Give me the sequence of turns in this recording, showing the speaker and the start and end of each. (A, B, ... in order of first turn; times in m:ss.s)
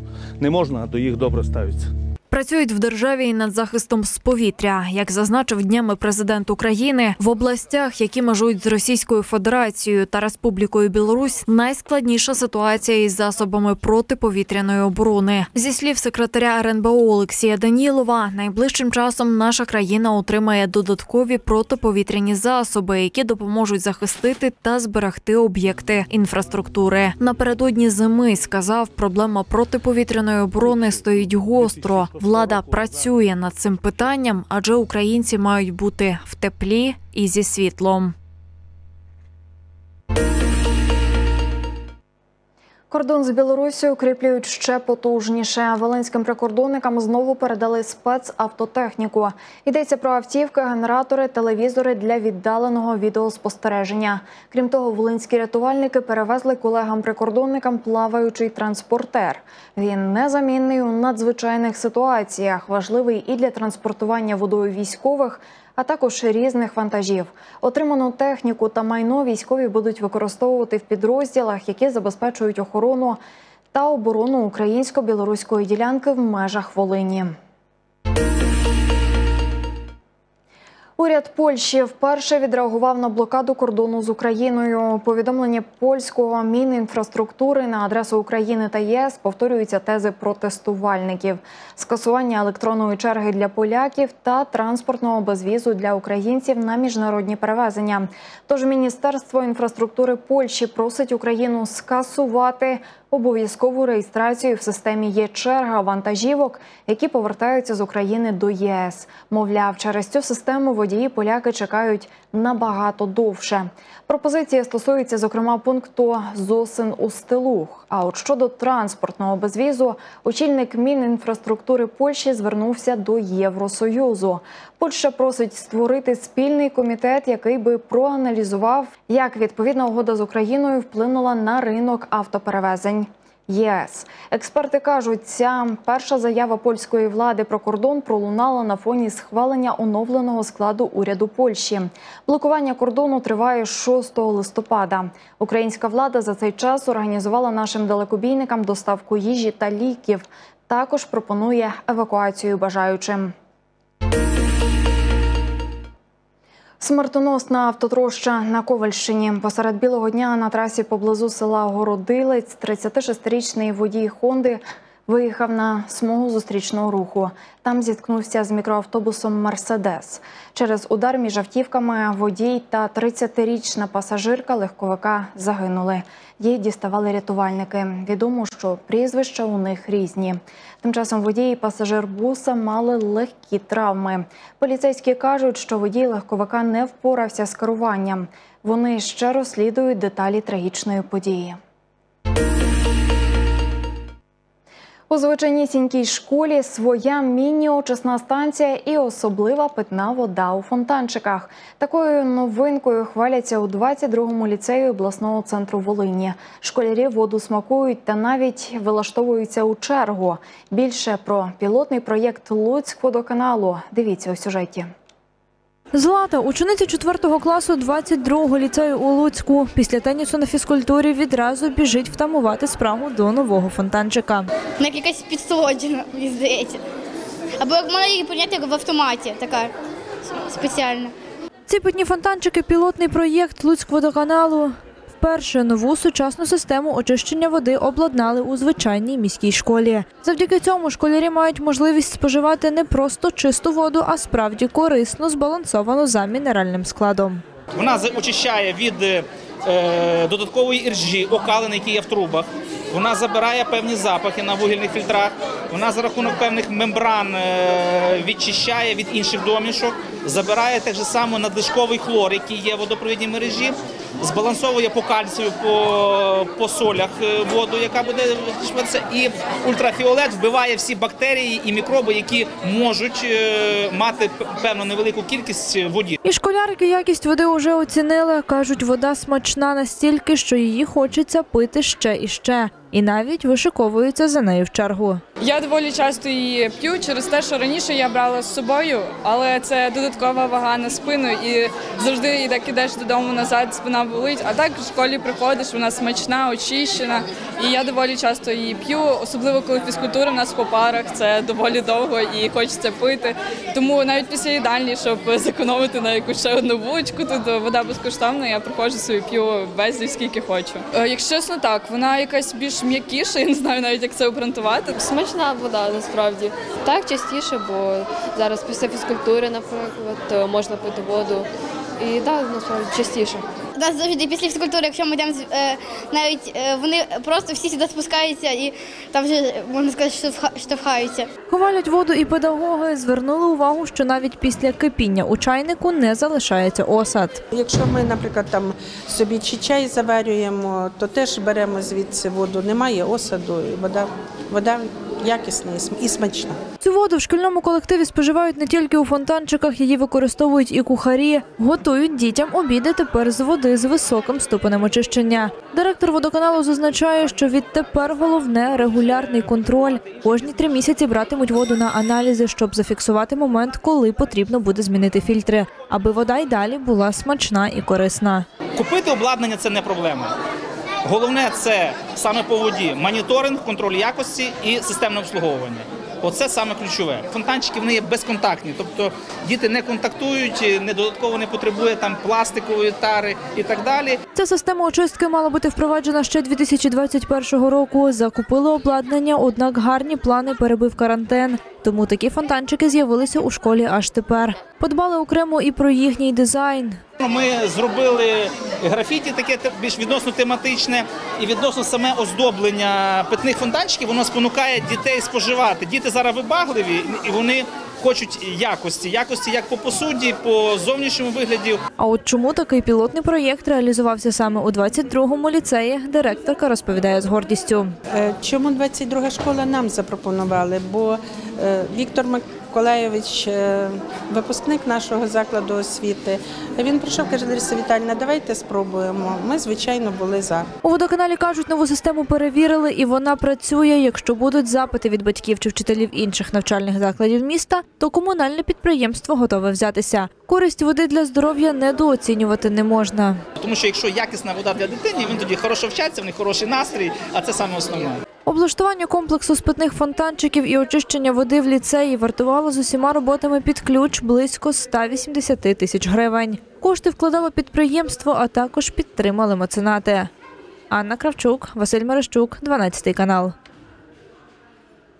0:00.4-0:01.9 A
0:02.3-0:38.1 B
0:30.6-0:33.2 A
0:42.9-1:13.2 B
1:13.7-1:17.3 B
1:21.0-2:33.3 B
2:36.8-3:11.6 B
3:15.1-3:34.9 B
3:35.9-3:44.5 C
3:44.8-3:46.8 D
3:47.6-3:49.7 D
3:50.3-3:51.1 D
3:51.7-4:07.4 C
4:07.7-4:36.2 E
4:36.2-4:45.2 C
4:45.4-5:15.1 F
5:15.0-5:21.5 G
5:22.0-5:23.4 G
5:23.8-5:31.3 D
5:31.5-5:37.4 C
5:37.5-5:46.6 H
5:46.8-6:08.4 C
6:08.8-6:10.3 E
6:11.0-6:24.2 E
6:24.3-6:37.0 C
6:37.2-6:51.8 E
6:52.0-6:57.9 C
6:58.1-7:10.7 H
7:10.8-7:23.4 C
7:23.6-7:28.2 E
7:28.4-7:40.3 C
7:40.9-7:43.5 C